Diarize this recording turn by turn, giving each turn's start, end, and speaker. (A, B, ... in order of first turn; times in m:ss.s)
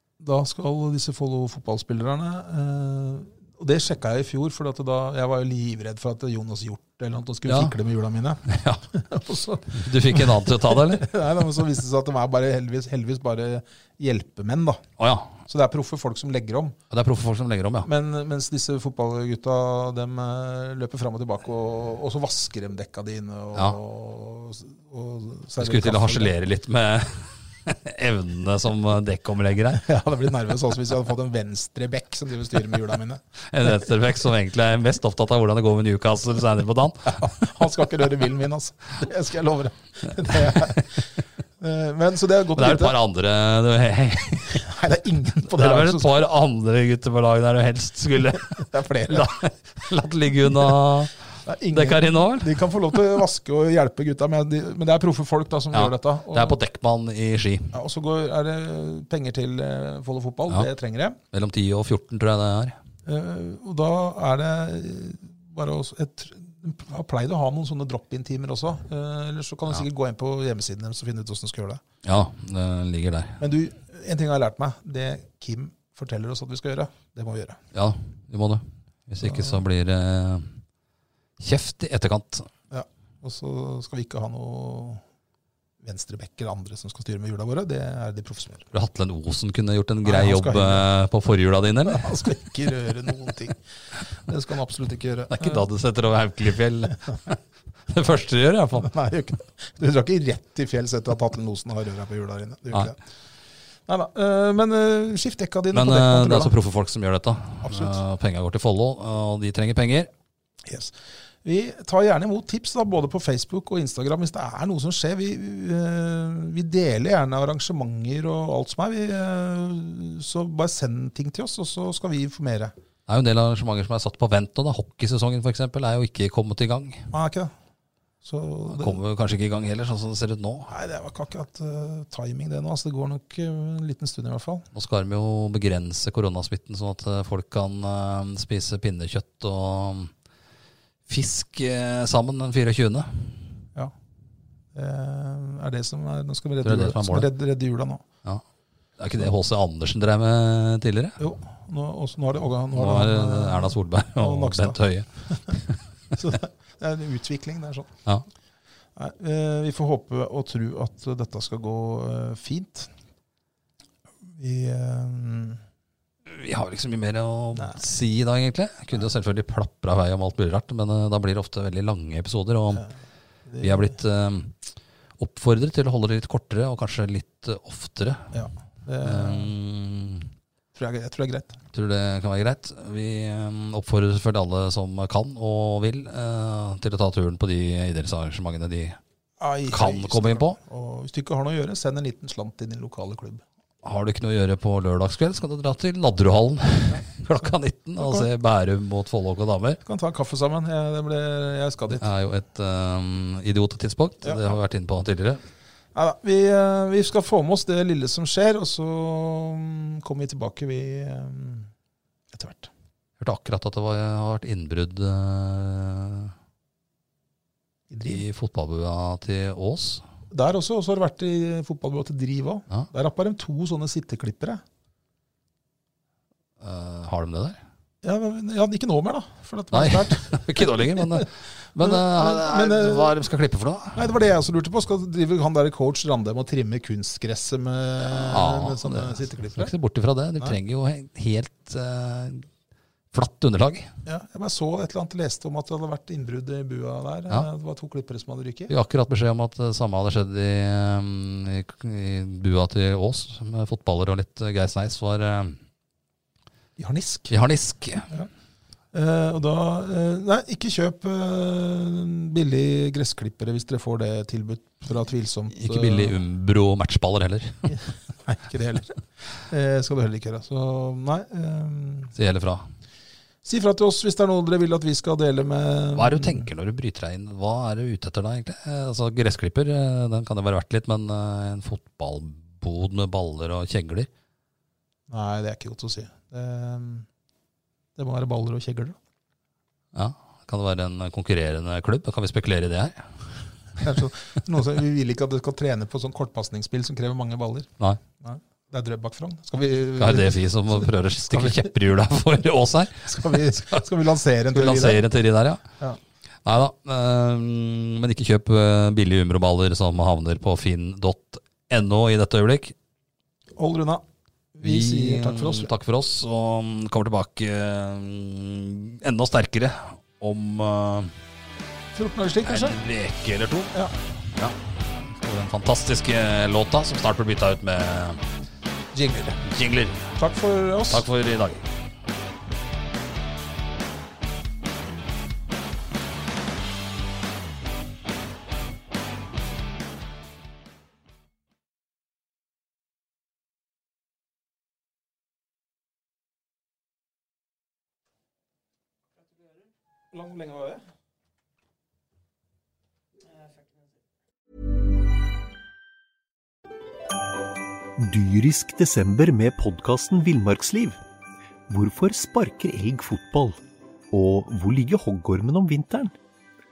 0:00.2-0:14.8 A
0:07.5-0:07.7 B
0:08.5-0:08.8 B
0:09.7-0:11.0 B
0:15.0-0:15.4 B
0:15.4-0:16.8 A
0:16.9-0:17.9 B
0:17.8-0:26.3 A
0:25.6-0:29.8 B
0:29.7-0:33.8 A
0:33.5-0:37.5 B
0:37.1-0:41.0 A
0:40.3-0:40.9 B
0:41.6-0:43.0 A
0:42.6-0:44.6 B
0:44.5-0:46.1 A
0:45.6-0:51.2 B
0:48.6-0:49.4 A
0:51.4-0:56.6 A
0:51.7-0:53.2 B
0:55.7-0:57.8 B
0:57.7-1:01.2 A
1:01.3-1:02.8 B
1:03.0-1:11.8 A
1:12.0-1:13.4 B
1:13.4-1:17.6 A
1:17.7-1:20.5 B
1:19.2-1:19.6 A
1:21.4-1:22.5 B
1:22.7-1:25.0 A
1:25.8-1:28.7 A
1:28.7-1:32.4 B
1:30.0-1:30.9 A
1:31.8-1:33.6 A
1:34.2-1:35.6 A
1:35.3-1:38.9 B
1:38.7-1:43.0 A
1:43.9-1:46.5 A
1:45.7-1:50.1 B
1:47.6-1:48.0 A
1:50.6-2:02.7 A
2:03.1-2:07.1 B
2:07.1-2:07.5 A
2:08.2-2:09.0 A
2:08.7-2:10.7 B
2:10.7-2:14.6 A
2:14.7-2:20.1 B
2:21.1-2:23.5 B
2:24.7-2:28.0 A
2:26.6-2:27.3 B
2:29.0-2:31.2 B
2:31.2-2:35.6 A
2:32.7-2:36.2 B
2:36.1-2:37.9 A
2:39.0-2:42.9 A
2:44.3-2:45.6 A
2:46.3-2:52.8 B
2:47.5-2:47.8 A
2:53.5-2:53.9 A
2:53.6-2:54.6 B
2:55.2-2:58.4 B
2:58.3-2:59.5 A
2:59.0-3:00.3 B
3:00.8-3:01.6 A
3:01.7-3:09.0 B
3:09.4-3:13.4 A
3:09.7-3:10.6 B
3:13.8-3:19.8 B
3:16.9-3:18.3 A
3:19.8-3:22.1 A
3:22.0-3:25.4 B
3:24.2-3:24.5 A
3:25.9-3:31.7 A
3:32.3-3:32.7 A
3:33.2-3:36.3 B
3:37.9-3:38.2 A
3:38.0-3:40.0 B
3:40.3-3:44.6 A
3:46.6-3:47.6 B
3:48.0-3:51.2 A
3:49.7-3:54.1 B
3:51.8-3:53.2 A
3:53.9-3:59.7 A
3:58.1-4:02.5 B
4:03.1-4:03.9 B
4:04.0-4:08.7 A
4:08.7-4:15.6 B
4:16.8-4:17.3 A
4:17.3-4:18.1 B
4:18.9-4:26.2 A
4:25.5-4:27.8 B
4:27.7-4:32.1 A
4:32.1-4:32.6 B
4:33.4-4:36.5 A
4:35.9-4:44.1 B
4:45.1-4:47.1 A
4:48.0-4:49.0 A
4:49.9-4:53.1 B
4:53.8-4:57.7 A
4:58.2-5:01.7 A
5:00.0-5:03.8 B
5:03.0-5:05.0 A
5:04.5-5:05.6 B
5:06.4-5:12.8 B
5:13.6-5:14.0 A
5:14.5-5:15.7 A
5:14.6-5:21.1 B
5:21.9-5:22.8 A
5:22.4-5:28.2 B
5:28.9-5:29.4 A
5:29.4-5:30.2 B
5:30.2-5:31.1 A
5:30.9-5:31.6 B
5:50.1-5:50.8 A
5:58.0-6:01.0 C
6:01.7-6:03.6 C
6:04.1-6:06.1 C